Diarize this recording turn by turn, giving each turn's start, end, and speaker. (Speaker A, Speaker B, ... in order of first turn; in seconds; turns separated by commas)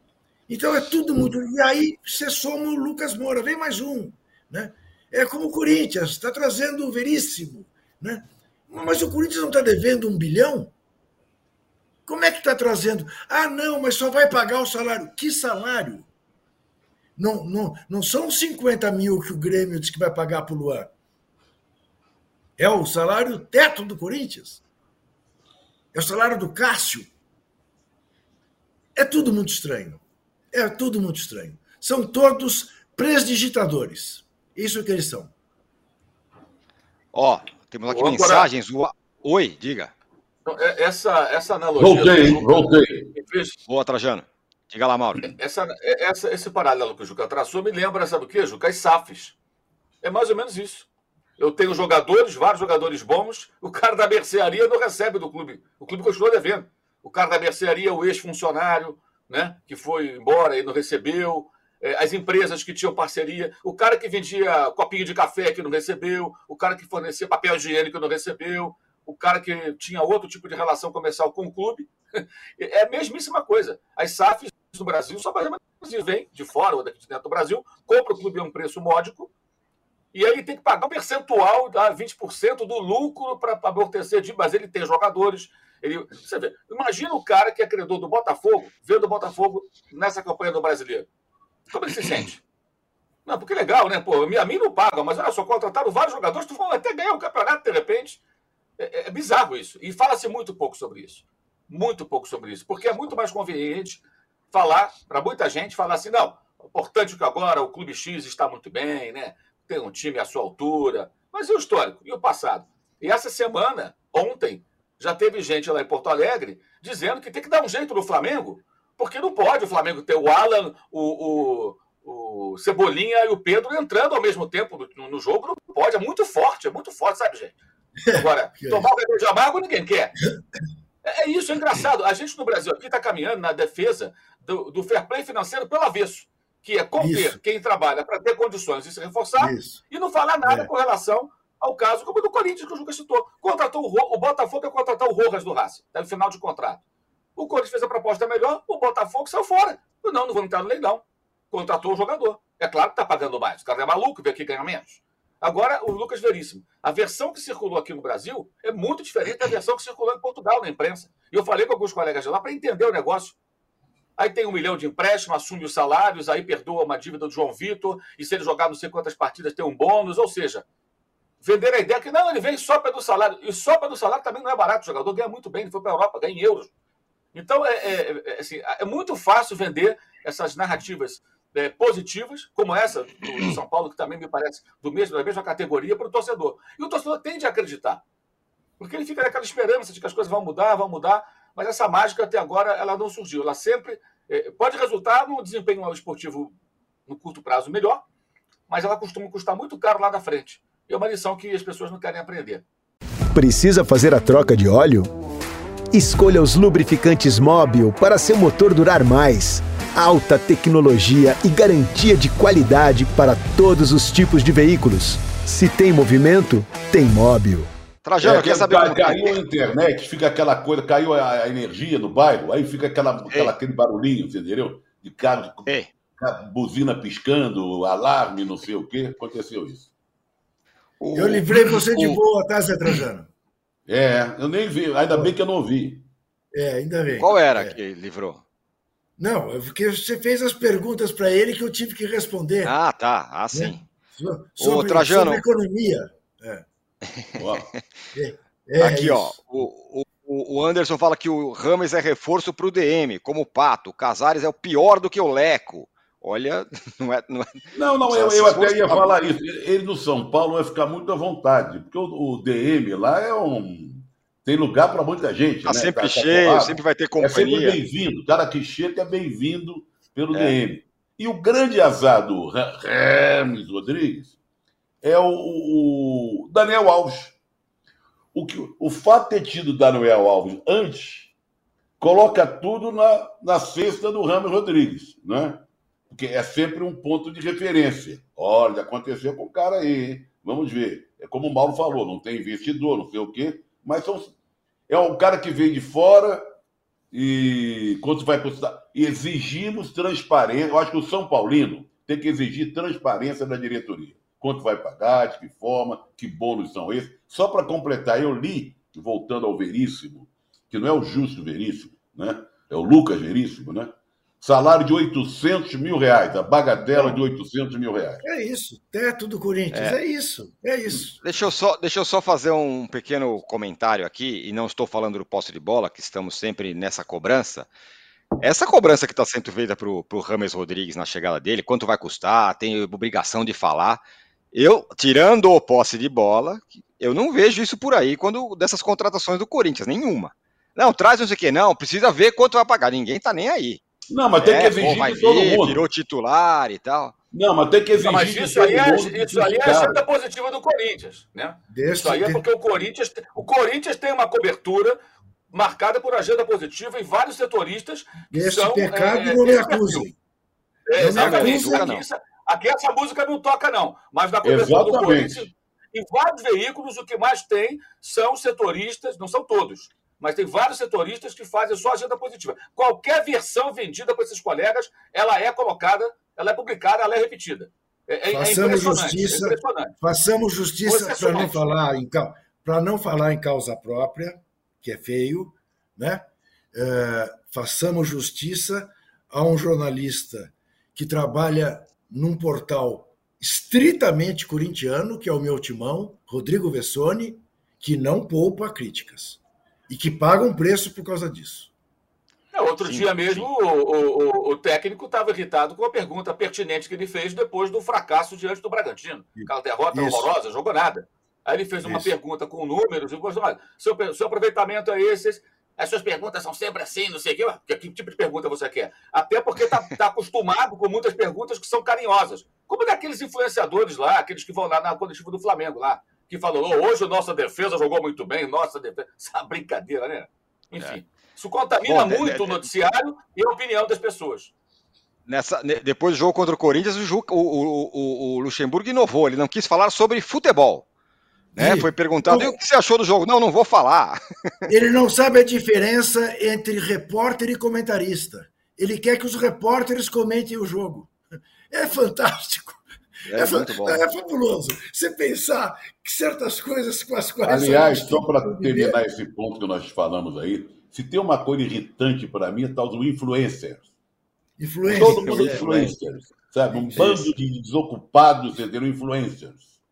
Speaker A: 0.5-10.7, Speaker A: 12.1-16.1, Speaker A: 17.2-20.9, Speaker A: 22.6-24.6, Speaker A: 25.9-27.1, Speaker A: 28.9-35.3, Speaker B: 37.1-39.9, Speaker C: 37.9-38.5, Speaker C: 40.5-43.6, Speaker D: 41.8-43.1, Speaker B: 43.7-45.3, Speaker C: 45.3-49.4, Speaker C: 50.0-50.9, Speaker C: 51.4-79.3, Speaker C: 80.1-91.1, Speaker C: 91.7-92.4, Speaker C: 93.3-98.2, Speaker C: 98.8-127.5, Speaker A: 128.0-128.8, Speaker C: 128.1-130.1, Speaker C: 131.0-146.8, Speaker A: 137.0-137.4, Speaker A: 139.4-139.8, Speaker A: 140.4-140.7, Speaker C: 147.4-163.4, Speaker C: 164.2-170.6, Speaker C: 171.4-176.7, Speaker C: 177.3-188.0, Speaker C: 188.8-196.6, Speaker C: 197.1-198.0, Speaker C: 198.7-202.6, Speaker E: 203.3-205.1, Speaker E: 205.9-217.7, Speaker B: 218.0-219.4, Speaker D: 218.2-229.9, Speaker B: 225.7-225.9, Speaker B: 231.0-232.2, Speaker A: 231.1-233.3, Speaker D: 233.9-236.1, Speaker A: 236.5-237.8, Speaker B: 237.1-238.4, Speaker A: 239.2-242.8, Speaker B: 242.6-243.8, Speaker A: 243.5-246.6, Speaker B: 244.6-245.4, Speaker B: 247.2-247.8, Speaker D: 247.4-247.7, Speaker A: 248.1-249.4, Speaker B: 248.8-259.1, Speaker D: 257.7-274.4, Speaker B: 265.6-267.8, Speaker B: 270.3-270.6, Speaker D: 275.0-277.4, Speaker D: 278.3-281.3, Speaker D: 282.0-294.3, Speaker D: 294.9-296.4, Speaker D: 297.1-318.2, Speaker A: 316.9-317.2, Speaker A: 318.2-321.1, Speaker B: 319.7-320.0, Speaker B: 321.2-327.7, Speaker B: 328.4-334.0, Speaker B: 334.5-343.8, Speaker D: 344.1-345.8, Speaker B: 344.4-347.1, Speaker D: 347.3-350.0, Speaker C: 347.9-355.0, Speaker A: 351.7-352.4, Speaker C: 355.5-360.1, Speaker A: 358.3-360.1, Speaker C: 360.9-379.9, Speaker A: 361.0-361.9, Speaker B: 361.1-362.1, Speaker D: 364.4-365.5, Speaker A: 378.3-401.7, Speaker C: 380.9-381.8, Speaker C: 402.5-434.5, Speaker B: 402.8-403.5, Speaker A: 409.4-410.3, Speaker A: 411.8-412.1, Speaker B: 431.9-432.7, Speaker B: 435.3-440.9, Speaker A: 441.6-442.6, Speaker B: 441.6-444.2, Speaker A: 444.7-451.1, Speaker A: 451.7-459.0, Speaker B: 453.2-454.0, Speaker D: 457.4-463.9, Speaker A: 464.6-465.9, Speaker D: 464.9-469.6, Speaker B: 465.2-465.9, Speaker B: 466.9-467.3